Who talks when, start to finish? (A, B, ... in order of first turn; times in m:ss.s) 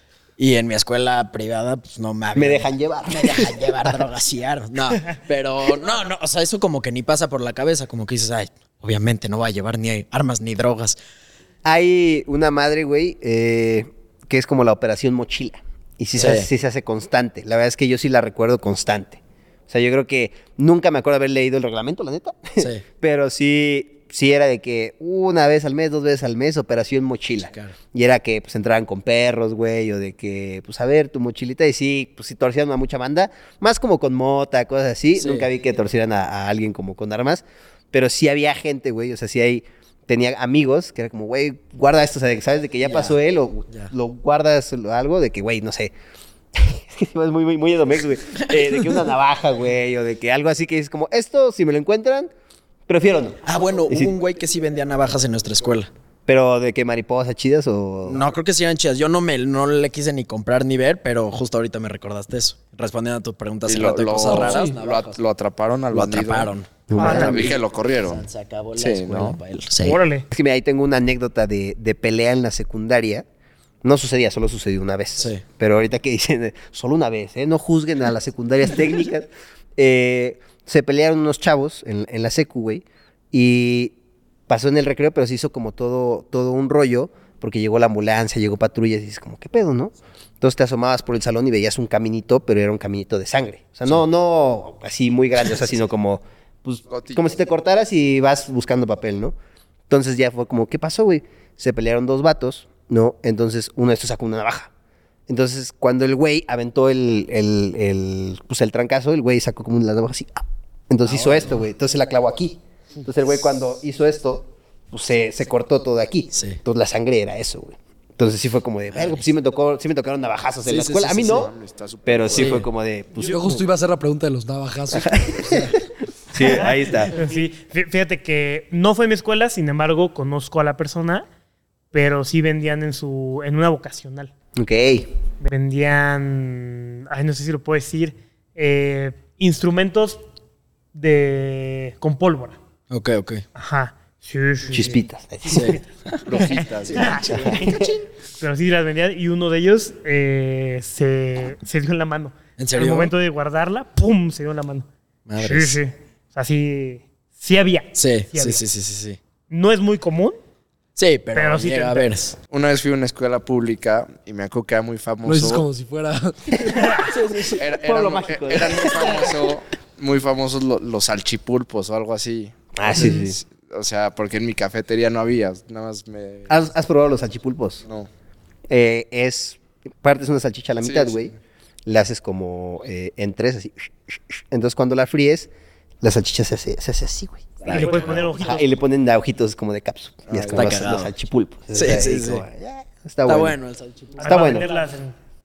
0:00.4-0:11.0 A
0:02.4-0:04.0 B
0:11.6-0:45.9 B
0:16.1-0:16.5 A
0:22.6-0:22.8 A
0:27.5-0:27.8 A
0:35.1-0:35.5 A
0:42.8-0:43.2 A
0:46.6-0:52.3 B
0:48.4-0:48.8 A
0:52.9-0:54.1 B
0:53.4-0:55.9 A
0:56.3-0:58.2 B
0:58.0-1:05.2 A
1:03.7-1:08.3 C
1:04.3-1:04.8 D
1:05.9-1:10.0 A
1:06.9-1:07.6 B
1:07.0-1:07.6 E
1:08.8-1:09.4 C
1:09.8-1:10.3 E
1:10.3-1:13.2 B
1:13.8-1:23.9 B
1:24.5-1:39.4 B
1:36.9-1:37.5 C
1:39.9-1:44.7 B
1:45.3-2:01.5 B
1:51.0-1:51.6 A
1:56.3-1:56.6 A
1:58.9-1:59.3 A
2:00.6-2:01.4 A
2:01.2-2:02.7 C
2:02.1-2:03.6 B
2:02.3-2:02.7 A
2:03.2-2:05.7 D
2:04.9-2:05.8 B
2:06.3-2:07.2 B
2:06.4-2:11.2 E
2:11.9-2:14.3 E
2:14.6-2:15.1 B
2:15.4-2:20.2 E
2:20.9-2:22.6 E
2:22.9-2:23.4 A
2:23.6-2:34.9 E
2:24.7-2:25.8 B
2:25.5-2:25.8 A
2:26.2-2:27.6 C
2:26.9-2:27.8 A
2:27.4-2:27.9 B
2:32.6-2:33.1 A
2:35.3-2:35.8 A
2:35.4-2:38.6 E
2:38.0-2:39.2 A
2:39.5-2:40.4 E
2:41.0-2:42.4 A
2:41.4-2:42.1 E
2:42.5-2:45.7 C
2:45.2-2:46.9 D
2:46.7-2:47.1 E
2:47.1-2:47.6 A
2:47.5-2:56.5 C
2:47.8-2:49.4 B
2:52.8-2:53.4 B
2:53.0-2:53.2 D
2:56.5-2:57.8 B
2:58.7-3:01.3 B
3:00.8-3:01.3 C
3:01.9-3:05.5 B
3:06.0-3:13.6 B
3:07.6-3:08.3 A
3:07.7-3:08.8 E
3:10.3-3:10.9 C
3:10.5-3:11.1 A
3:11.7-3:12.4 A
3:13.3-3:14.7 A
3:14.2-3:15.2 E
3:14.2-3:14.7 B